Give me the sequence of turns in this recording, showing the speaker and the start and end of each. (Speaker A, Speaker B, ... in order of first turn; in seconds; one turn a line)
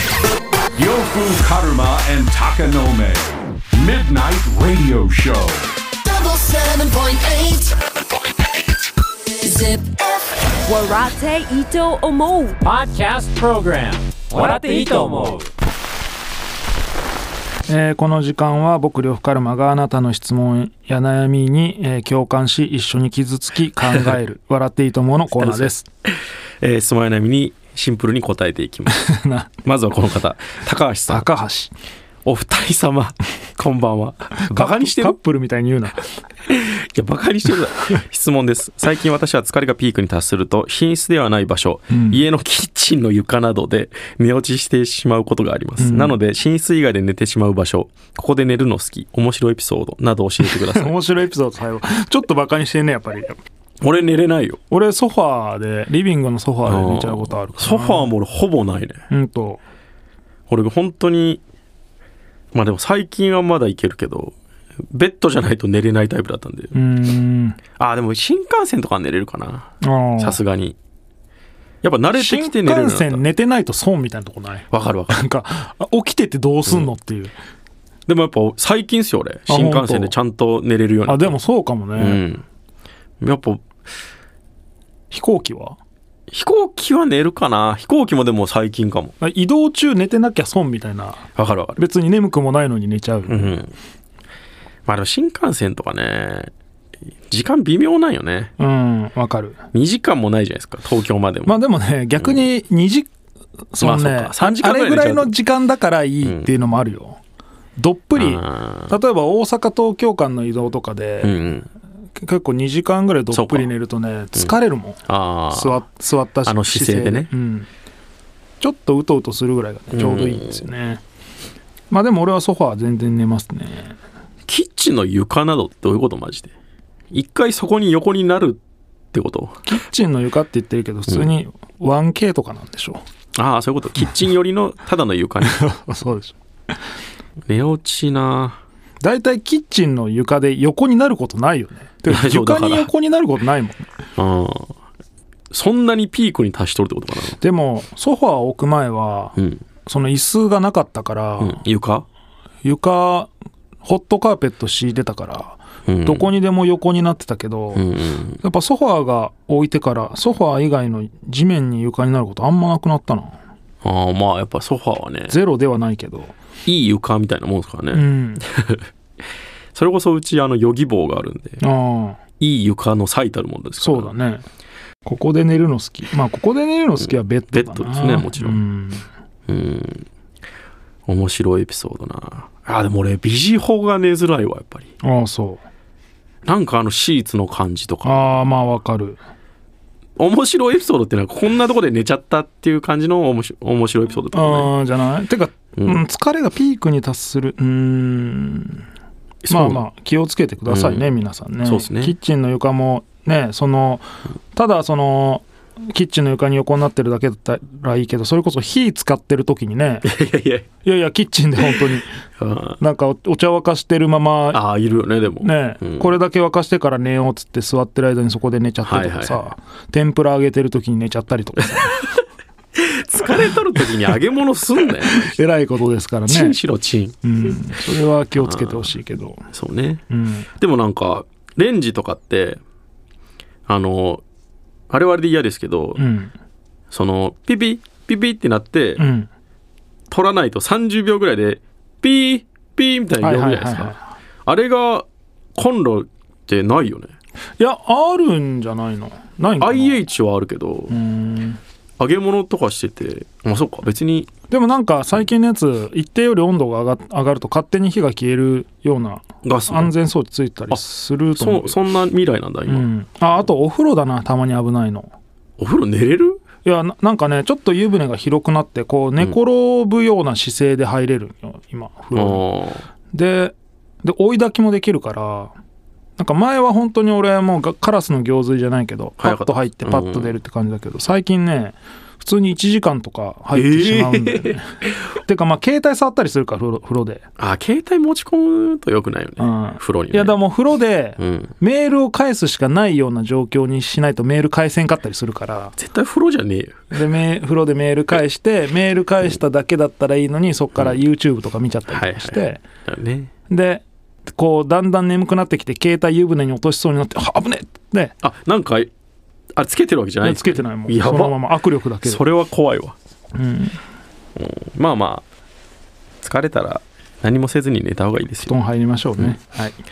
Speaker A: 0.8-5.7
Speaker B: 6.1-7.7
Speaker C: 7.3-7.7
Speaker B: 9.4-10.2
Speaker C: 10.7-12.5
Speaker D: 12.6-15.5
Speaker E: 17.7-25.9
Speaker F: 25.3-25.7
Speaker F: 26.6-29.0
Speaker E: 28.9-29.5
Speaker F: 29.6-31.3
Speaker E: 31.1-31.7
Speaker F: 32.2-35.1
Speaker E: 34.5-36.1
Speaker F: 36.5-51.0
Speaker E: 41.9-42.2
Speaker E: 45.8-46.1
Speaker E: 50.4-53.4
Speaker F: 53.8-54.6
Speaker E: 54.7-58.1
Speaker F: 56.6-59.0
Speaker E: 59.1-59.6
Speaker F: 60.5-61.4
Speaker F: 62.5-64.3
Speaker F: 64.9-66.7
Speaker E: 66.7-67.6
Speaker F: 67.8-70.8
Speaker E: 69.8-70.4
Speaker F: 71.8-73.2
Speaker E: 72.1-77.3
Speaker F: 74.7-75.2
Speaker F: 78.1-81.3
Speaker E: 79.5-80.1
Speaker E: 81.0-82.2
Speaker F: 82.0-82.4
Speaker F: 83.2-83.6
Speaker E: 85.1-85.8
Speaker F: 86.3-89.1
Speaker E: 89.2-91.2
Speaker F: 91.3-91.8
Speaker E: 91.8-93.6
Speaker F: 93.3-93.7
Speaker F: 94.8-96.5
Speaker F: 97.3-98.5
Speaker E: 98.6-99.6
Speaker F: 99.7-101.6
Speaker E: 101.5-103.1
Speaker F: 102.2-102.5
Speaker E: 103.7-107.2
Speaker F: 103.8-105.3
Speaker F: 106.2-106.5
Speaker E: 107.8-111.3
Speaker F: 108.2-108.9
Speaker F: 111.2-111.7
Speaker E: 112.2-117.7
Speaker F: 113.3-113.7
Speaker F: 115.1-115.8
Speaker F: 116.4-117.3
Speaker E: 118.6-121.0
Speaker F: 119.9-120.7
Speaker E: 121.9-124.0
Speaker F: 124.5-126.5
Speaker F: 127.1-128.6
Speaker F: 129.1-129.6
Speaker E: 129.7-133.0
Speaker F: 131.1-131.3
Speaker F: 133.3-135.6
Speaker E: 135.4-136.3
Speaker F: 137.5-138.6
Speaker E: 139.0-143.9
Speaker F: 142.1-142.9
Speaker F: 144.2-144.7
Speaker F: 145.5-147.4
Speaker E: 147.4-151.6
Speaker F: 149.4-149.6
Speaker F: 151.4-152.1
Speaker E: 152.6-153.3
Speaker E: 153.8-157.8
Speaker F: 155.9-156.3
Speaker F: 157.7-158.4
Speaker E: 158.4-163.4
Speaker F: 163.8-165.4
Speaker E: 165.3-166.3
Speaker F: 166.7-168.8
Speaker E: 167.9-168.4
Speaker F: 169.7-171.6
Speaker E: 171.6-172.2
Speaker F: 172.4-174.1
Speaker E: 173.8-174.4
Speaker E: 175.0-179.1
Speaker F: 177.0-178.6
Speaker F: 179.5-180.1
Speaker F: 181.1-184.9
Speaker E: 185.0-185.6
Speaker F: 186.4-188.4
Speaker E: 188.0-189.2
Speaker F: 190.2-194.7
Speaker E: 194.3-198.8
Speaker F: 199.4-199.8
Speaker E: 199.5-210.1
Speaker F: 200.7-202.1
Speaker F: 210.0-210.7
Speaker E: 210.8-212.1
Speaker F: 211.6-212.8
Speaker E: 212.8-214.6
Speaker F: 214.5-216.2
Speaker E: 215.4-221.9
Speaker F: 218.8-219.4
Speaker F: 222.8-225.3
Speaker E: 224.8-226.6
Speaker F: 226.3-227.6
Speaker E: 227.2-229.4
Speaker F: 228.3-228.9
Speaker F: 229.5-230.0
Speaker E: 230.1-230.5
Speaker F: 230.6-232.6
Speaker F: 233.7-234.2
Speaker F: 234.9-236.0
Speaker E: 236.0-236.3
Speaker F: 236.9-239.0
Speaker E: 239.0-239.3
Speaker F: 240.1-247.1
Speaker E: 243.2-244.1
Speaker E: 247.6-250.0
Speaker F: 249.6-251.0
Speaker E: 250.9-251.6
Speaker F: 252.0-254.3
Speaker E: 254.5-261.8
Speaker F: 259.4-259.9
Speaker F: 260.7-262.9
Speaker E: 262.7-265.1
Speaker F: 265.6-266.4
Speaker E: 266.6-272.4
Speaker F: 272.1-272.9
Speaker E: 273.1-275.5
Speaker E: 276.2-287.2
Speaker F: 279.2-280.4
Speaker F: 283.5-284.9
Speaker F: 287.4-290.4
Speaker E: 289.4-295.8
Speaker F: 291.2-291.5
Speaker F: 295.8-296.9
Speaker E: 296.9-302.6
Speaker F: 301.9-303.3
Speaker E: 303.5-308.1
Speaker F: 308.2-308.9
Speaker F: 309.6-311.4
Speaker E: 310.2-312.2
Speaker F: 312.0-312.9
Speaker E: 313.3-313.8
Speaker F: 314.4-315.2
Speaker F: 316.2-318.5
Speaker E: 318.4-319.8